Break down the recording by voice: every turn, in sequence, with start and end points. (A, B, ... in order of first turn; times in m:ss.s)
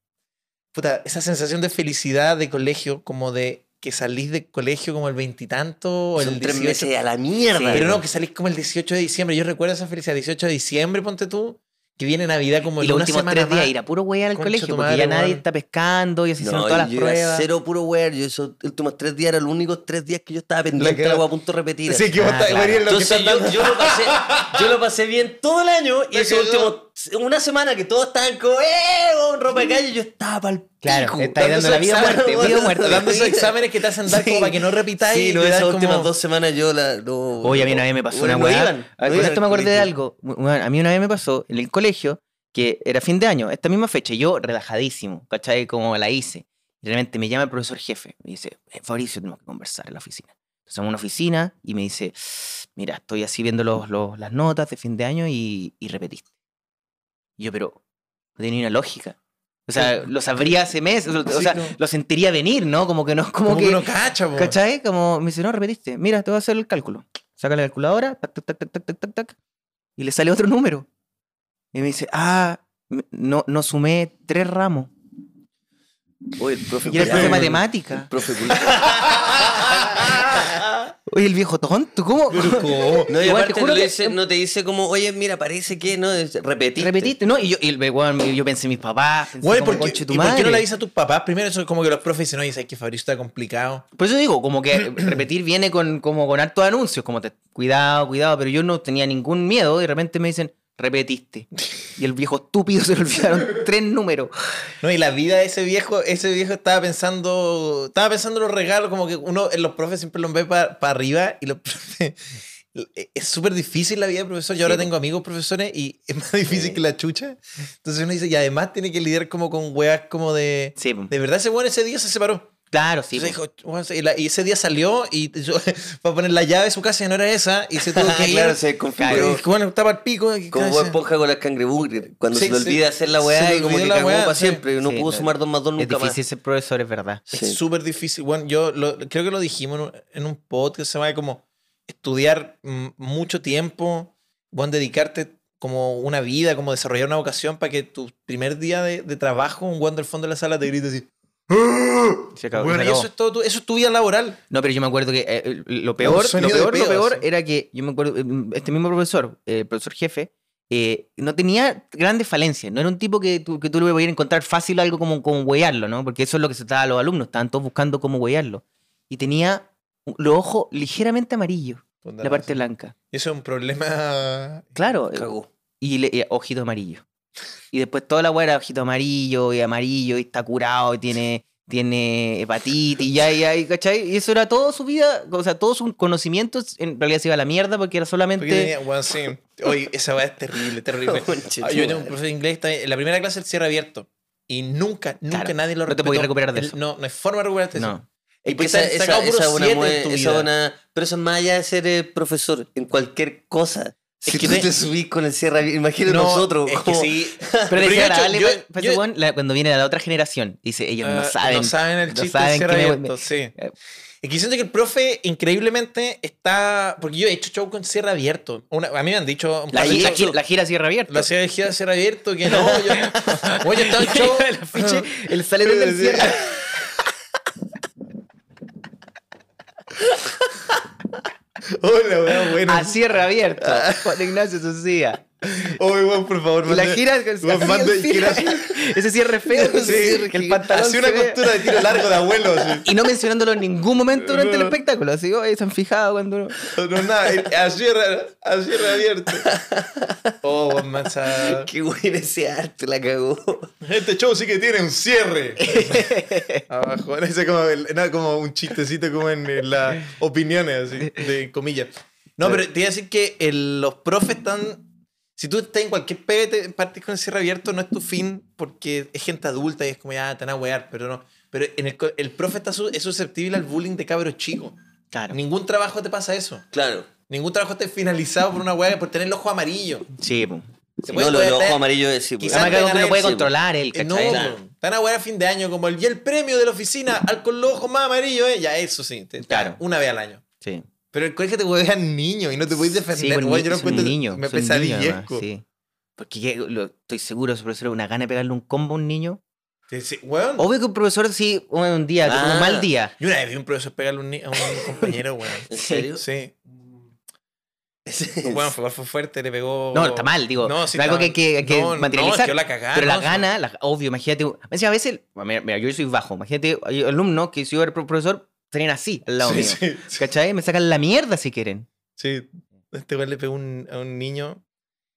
0:00.7-0:06.9 A
0:06.2-0:08.0 B
0:07.5-0:08.0 C
0:07.7-0:13.7 A
0:12.8-0:17.4 C
0:14.3-0:15.4 A
0:16.4-0:22.1 B
0:20.8-0:21.2 A
0:21.8-0:24.7 A
0:22.1-0:22.9 C
0:22.9-0:39.9 B
0:26.1-0:26.7 A
0:30.8-0:33.0 C
0:31.2-0:36.1 A
0:37.4-0:56.3 C
0:57.4-0:57.8 C
0:58.4-1:03.8 C
0:59.8-1:00.5 A
1:01.3-1:01.8 A
1:03.4-1:04.6 A
1:04.3-1:09.3 C
1:10.0-1:10.9 C
1:11.7-1:14.9 C
1:16.4-1:20.6 B
1:16.9-1:18.1 C
1:17.1-1:17.5 A
1:18.6-1:20.8 A
1:21.1-1:24.2 C
1:22.3-1:23.1 A
1:23.1-1:27.1 B
1:26.8-1:30.6 C
1:29.4-1:33.8 A
1:34.0-1:44.3 C
1:44.8-1:52.2 A
1:52.7-2:02.5 A
1:56.5-1:56.8 C
2:00.8-2:01.1 C
2:02.7-2:03.4 C
2:03.1-2:11.0 A
2:07.8-2:09.4 B
2:09.0-2:09.4 C
2:10.5-2:16.2 B
2:12.3-2:14.6 A
2:14.8-2:17.2 C
2:17.3-2:17.6 B
2:17.3-2:34.4 A
2:32.4-2:33.1 C
2:34.5-2:52.9 C
2:36.0-2:37.2 A
2:52.0-2:52.5 A
2:53.1-2:54.8 A
2:54.8-2:57.0 C
2:55.1-2:55.5 B
2:57.7-3:08.7 C
3:08.4-3:20.5 A
3:11.0-3:12.1 B
3:15.3-3:16.8 C
3:17.8-3:18.0 C
3:18.5-3:27.9 B
3:24.3-3:24.6 A
3:24.3-3:24.6 C
3:26.0-3:29.0 A
3:27.7-3:33.7 C
3:31.0-3:33.5 A
3:34.2-3:40.3 A
3:39.7-3:41.3 C
3:39.7-3:40.4 B
3:41.1-3:46.7 A
3:42.5-3:42.9 B
3:42.9-3:46.9 C
3:51.6-3:53.1 A
3:52.6-3:55.2 C
3:55.5-3:59.0 A
3:56.6-4:01.5 C
3:59.5-4:02.9 A
4:01.7-4:02.0 B
4:02.8-4:06.6 C
4:04.2-4:04.8 A
4:06.7-4:09.5 A
4:09.4-4:10.3 B
4:10.4-4:11.7 A
4:11.2-4:13.7 B
4:13.8-4:34.8 A
4:15.6-4:16.6 C
4:35.3-4:36.6 A
4:36.7-4:37.1 B
4:37.3-4:40.1 A
4:40.2-4:40.7 C
4:41.0-4:41.8 A
4:41.1-4:43.4 B
4:42.4-4:50.4 A
4:42.5-4:44.4 C
4:44.2-4:44.6 B
4:49.5-4:49.8 C
4:51.1-4:55.4 A
4:53.1-4:55.6 C
4:56.2-4:59.4 C
4:59.9-5:00.7 A
5:00.6-5:03.1 C
5:02.2-5:02.9 B
5:03.2-5:06.6 A
5:04.6-5:05.1 B
5:05.7-5:06.2 B
5:08.0-5:08.7 B
5:08.4-5:13.4 A
5:09.9-5:21.9 C
5:19.4-5:20.3 A
5:22.2-5:24.6 A